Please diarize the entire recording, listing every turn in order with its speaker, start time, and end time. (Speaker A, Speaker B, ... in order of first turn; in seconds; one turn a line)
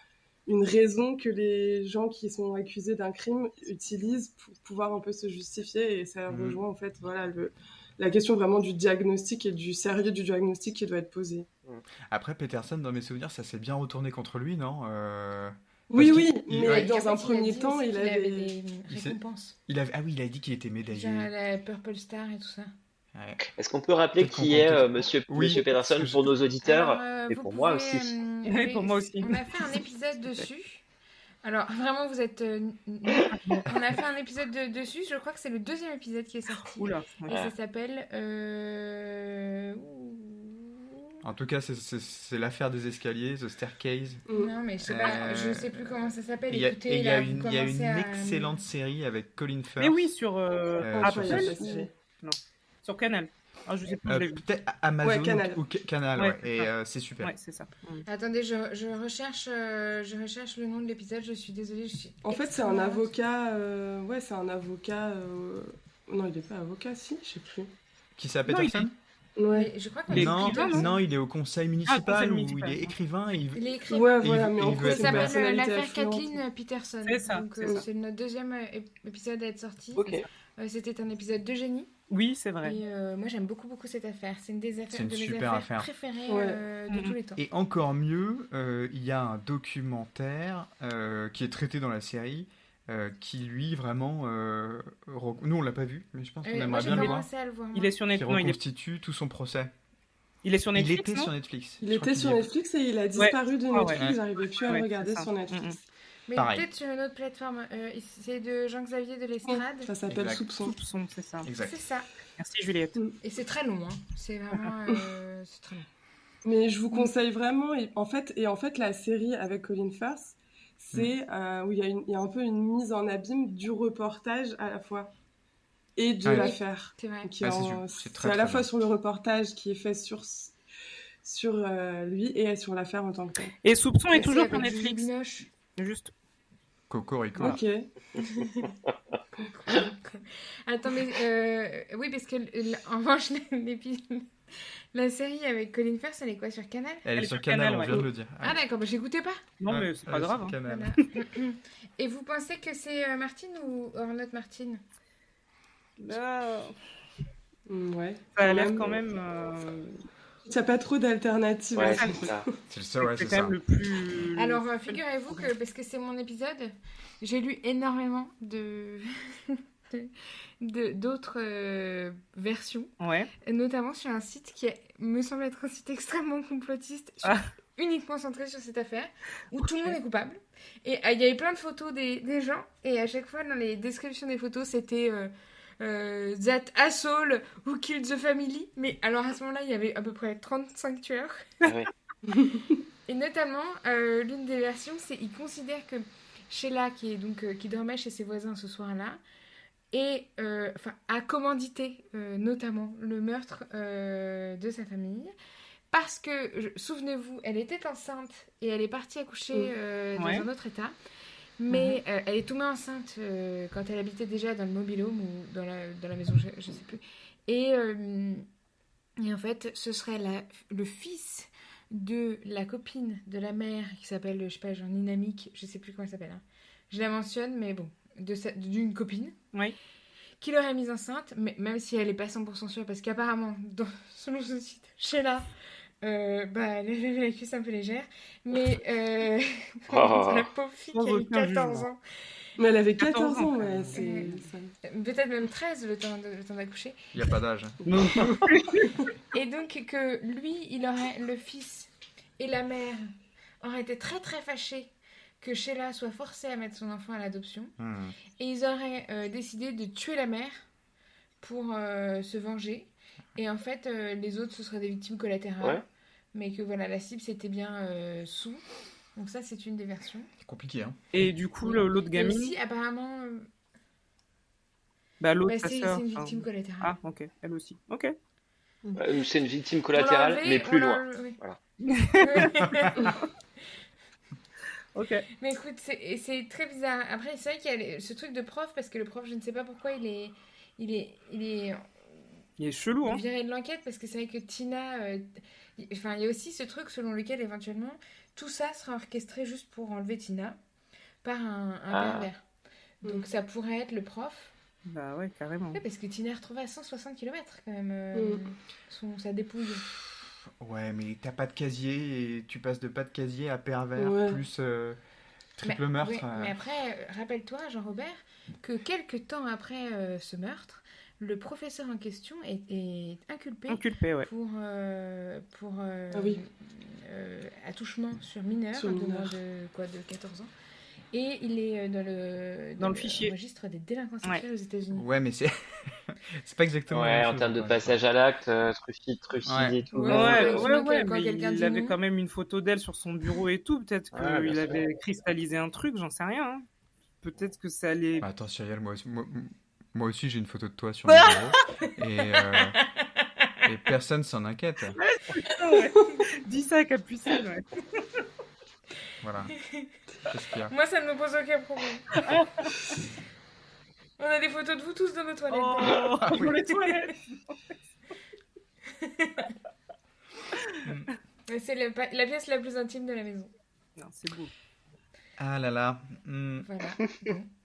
Speaker A: 0.5-11.5
Speaker B: 6.3-6.6
Speaker B: 12.1-16.9
Speaker A: 15.9-18.5
Speaker C: 16.6-19.6
Speaker B: 18.9-21.3
Speaker C: 20.9-22.7
Speaker B: 23.1-23.4
Speaker D: 23.6-28.1
Speaker B: 24.2-26.3
Speaker C: 26.6-30.8
Speaker E: 28.4-29.4
Speaker C: 31.4-41.0
Speaker E: 33.4-33.6
Speaker E: 36.8-37.4
Speaker B: 41.2-44.2
Speaker A: 44.3-44.5
Speaker C: 44.3-48.6
Speaker B: 44.8-50.1
Speaker E: 49.8-54.4
Speaker B: 50.8-51.9
Speaker A: 50.9-51.9
Speaker B: 54.1-57.3
Speaker A: 55.0-55.6
Speaker E: 56.2-56.7
Speaker E: 57.2-58.0
Speaker C: 58.1-63.1
Speaker A: 62.2-67.7
Speaker B: 68.2-68.9
Speaker E: 68.5-68.9
Speaker A: 69.4-69.7
Speaker C: 69.5-71.0
Speaker E: 70.1-70.8
Speaker B: 70.1-75.3
Speaker E: 71.9-72.9
Speaker C: 73.5-74.3
Speaker A: 73.9-76.4
Speaker C: 74.8-81.9
Speaker E: 77.0-77.8
Speaker D: 80.0-80.2
Speaker E: 82.1-82.8
Speaker C: 82.6-87.4
Speaker B: 84.9-85.9
Speaker A: 86.3-86.6
Speaker E: 86.9-87.2
Speaker B: 87.4-97.3
Speaker C: 96.4-98.0
Speaker E: 96.8-97.2
Speaker E: 97.7-98.6
Speaker B: 98.1-99.7
Speaker E: 100.4-101.3
Speaker B: 100.7-102.5
Speaker A: 101.8-105.8
Speaker E: 103.2-104.1
Speaker E: 104.6-105.8
Speaker C: 106.3-109.9
Speaker B: 106.3-106.7
Speaker A: 109.5-110.7
Speaker B: 110.1-110.5
Speaker E: 110.6-111.5
Speaker B: 111.4-111.8
Speaker C: 111.6-112.1
Speaker E: 112.4-113.0
Speaker C: 113.2-115.9
Speaker A: 116.4-125.1
Speaker A: 126.0-130.5
Speaker B: 126.2-126.5
Speaker C: 126.3-127.3
Speaker B: 127.4-128.7
Speaker A: 131.2-133.5
Speaker E: 133.6-135.1
Speaker C: 134.1-135.5
Speaker E: 135.7-136.1
Speaker B: 136.9-137.6
Speaker A: 137.4-137.9
Speaker C: 138.2-138.7
Speaker C: 139.5-144.3
Speaker C: 144.9-147.0
Speaker B: 147.0-148.6
Speaker E: 147.2-148.1
Speaker C: 148.4-149.4
Speaker E: 149.6-150.6
Speaker B: 149.7-150.9
Speaker C: 150.6-154.8
Speaker E: 156.0-156.8
Speaker A: 157.7-158.9
Speaker E: 158.3-160.0
Speaker A: 160.5-162.4
Speaker D: 161.7-162.4
Speaker E: 161.8-162.3
Speaker B: 162.7-163.6
Speaker E: 163.0-165.5
Speaker C: 164.4-172.9
Speaker E: 173.0-173.3
Speaker C: 173.4-191.5
Speaker E: 177.2-177.5
Speaker E: 179.6-179.9
Speaker A: 192.3-192.6
Speaker C: 193.1-199.2
Speaker C: 199.9-205.3
Speaker C: 205.9-210.9
Speaker E: 210.2-210.4
Speaker C: 211.6-218.4
Speaker E: 211.7-212.0
Speaker C: 219.2-229.4
Speaker C: 230.4-235.5
Speaker C: 236.0-242.0
Speaker D: 239.9-240.5
Speaker E: 240.9-241.9
Speaker A: 242.6-244.7
Speaker E: 243.0-244.3
Speaker C: 243.9-244.3
Speaker C: 244.8-247.0
Speaker B: 247.1-248.5
Speaker E: 247.8-248.9
Speaker C: 249.3-257.7
Speaker B: 257.8-258.1
Speaker C: 258.4-260.7
Speaker C: 261.4-268.6
Speaker C: 269.1-270.3
Speaker B: 270.4-271.0
Speaker E: 271.1-272.5
Speaker C: 271.6-273.5
Speaker E: 275.2-278.1
Speaker C: 275.4-277.0
Speaker D: 278.9-281.6
Speaker C: 279.9-281.4
Speaker E: 281.9-283.2
Speaker C: 282.2-283.2
Speaker E: 284.9-285.2
Speaker C: 285.4-291.9
Speaker E: 292.6-293.2
Speaker C: 293.0-300.6
Speaker C: 301.2-302.4
Speaker D: 301.9-302.3
Speaker C: 303.0-304.5
Speaker E: 304.9-305.8
Speaker C: 305.7-309.9
Speaker A: 308.1-308.4
Speaker B: 309.9-315.0
Speaker A: 314.0-314.4
Speaker B: 315.6-316.6
Speaker C: 315.6-330.5
Speaker E: 323.7-324.3
Speaker A: 326.1-326.4
Speaker A: 328.7-329.4
Speaker C: 331.1-335.1
Speaker E: 332.8-333.3
Speaker B: 334.9-337.9
Speaker D: 336.9-340.7
Speaker B: 339.4-339.8
Speaker C: 339.9-342.0
Speaker E: 340.1-346.6
Speaker D: 344.1-344.9
Speaker E: 347.2-348.2
Speaker B: 348.2-352.8
Speaker C: 352.9-353.4
Speaker B: 353.6-355.0
Speaker E: 355.0-357.6
Speaker B: 359.2-359.6
Speaker C: 359.6-359.9
Speaker B: 360.3-360.7
Speaker C: 360.7-362.1
Speaker E: 362.2-362.7
Speaker C: 364.2-366.1
Speaker E: 365.5-367.2
Speaker B: 366.2-366.6
Speaker C: 369.0-369.5
Speaker B: 370.8-371.1
Speaker C: 371.5-373.5
Speaker E: 374.0-374.5
Speaker B: 375.4-376.7
Speaker C: 376.6-377.5